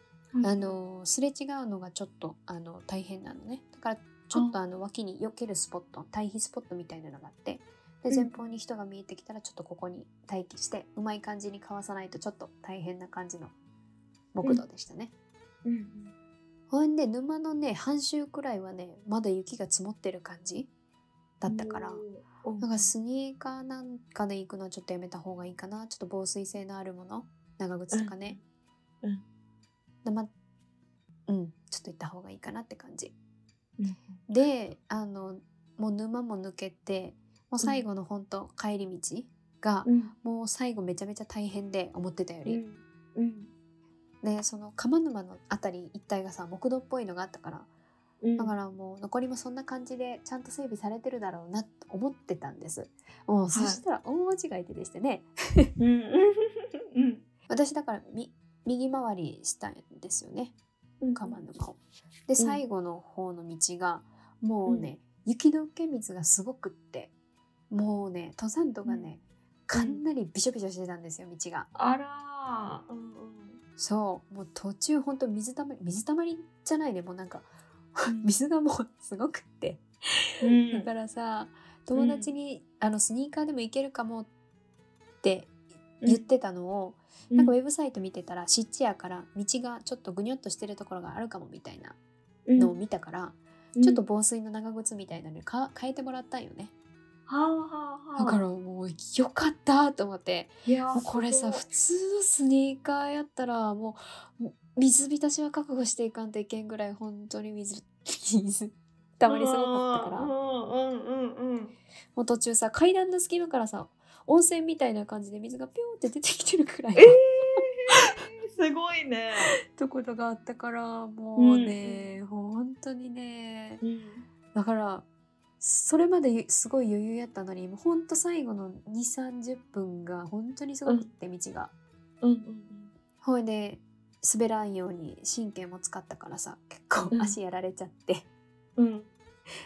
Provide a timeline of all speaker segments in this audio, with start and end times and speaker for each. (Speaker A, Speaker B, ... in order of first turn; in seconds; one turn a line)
Speaker A: 0.3-0.8
Speaker B: 0.4-13.5
Speaker A: 8.1-8.3
Speaker B: 14.3-15.1
Speaker A: 15.6-16.1
Speaker B: 16.7-20.7
Speaker B: 21.4-22.0
Speaker A: 21.5-22.9
Speaker B: 22.6-28.4
Speaker A: 27.9-28.4
Speaker B: 30.0-30.3
Speaker B: 31.3-33.1
Speaker A: 33.8-34.1
Speaker B: 34.3-42.6
Speaker A: 39.9-40.1
Speaker A: 42.4-43.5
Speaker B: 44.2-47.7
Speaker A: 48.2-48.5
Speaker B: 48.4-55.7
Speaker A: 53.5-53.8
Speaker A: 55.8-57.2
Speaker B: 57.5-60.5
Speaker A: 61.0-61.4
Speaker B: 61.1-67.1
Speaker B: 67.7-71.7
Speaker A: 69.7-70.0
Speaker A: 71.7-73.6
Speaker B: 73.8-79.8
Speaker A: 80.4-80.9
Speaker B: 80.6-84.3
Speaker A: 82.0-82.3
Speaker B: 85.2-85.5
Speaker A: 86.0-86.3
Speaker B: 86.0-92.0
Speaker A: 87.3-87.5
Speaker A: 92.5-92.7
Speaker B: 92.5-96.7
Speaker A: 97.3-98.4
Speaker B: 98.2-110.3
Speaker A: 100.7-101.6
Speaker A: 109.3-111.7
Speaker B: 112.1-117.2
Speaker A: 117.0-119.5
Speaker B: 117.9-118.2
Speaker B: 119.7-123.8
Speaker A: 121.4-122.2
Speaker A: 123.8-124.2
Speaker B: 124.5-125.0
Speaker B: 125.6-131.7
Speaker A: 132.2-132.9
Speaker B: 133.2-138.2
Speaker A: 137.0-137.4
Speaker A: 138.8-139.1